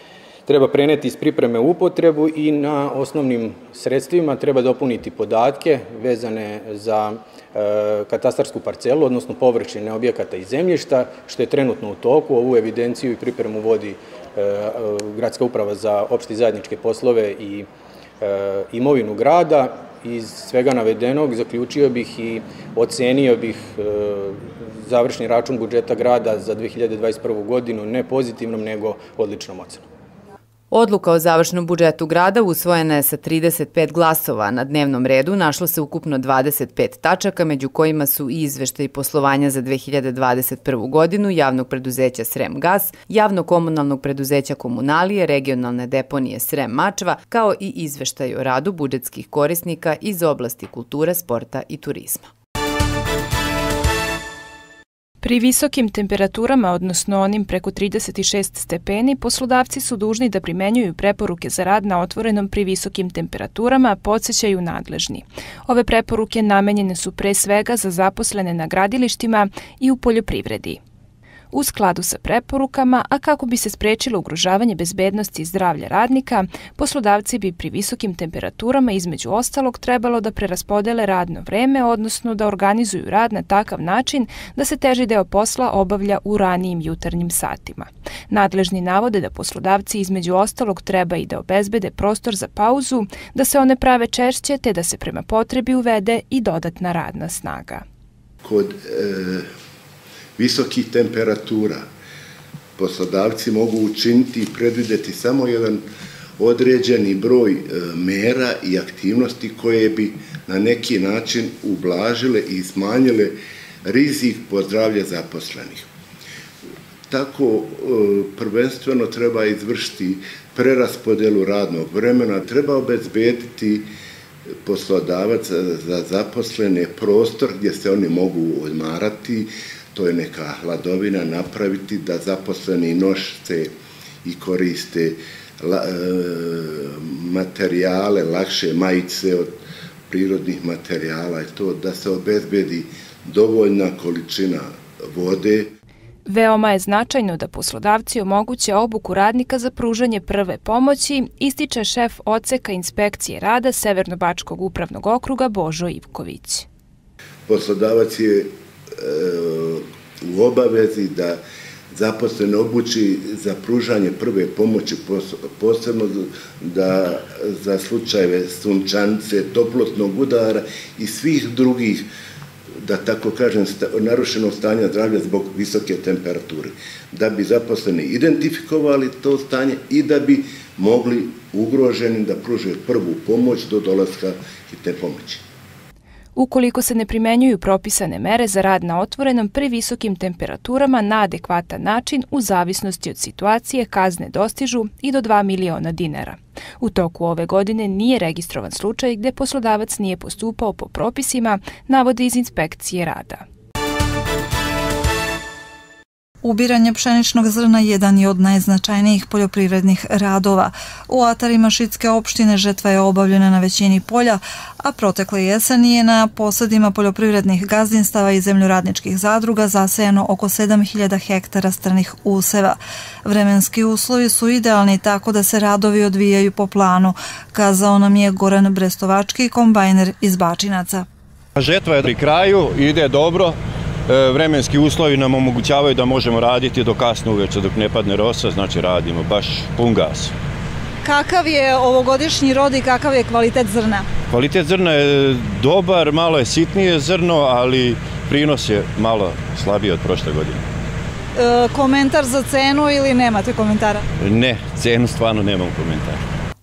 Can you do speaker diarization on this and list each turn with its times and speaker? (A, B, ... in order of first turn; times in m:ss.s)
0:00.5-0:17.7 A
0:18.2-0:29.9 A
0:30.7-0:52.3 B
0:55.2-1:10.8 C
1:11.5-1:37.8 C
1:38.4-1:39.5 D
1:40.4-1:41.9 D
1:42.8-1:45.8 D
1:46.4-1:55.9 D
1:57.1-2:03.9 D
2:04.6-2:13.7 D
2:14.2-2:25.7 D
2:26.3-2:36.7 C
2:37.5-2:41.4 D
2:41.9-2:52.1 D
2:52.8-3:05.4 D
3:06.4-3:23.4 C
3:26.4-3:51.0 E
3:51.6-4:00.3 F
4:01.0-4:04.0 E
4:04.3-4:10.6 F
4:11.4-4:14.0 E
4:14.2-4:16.2 F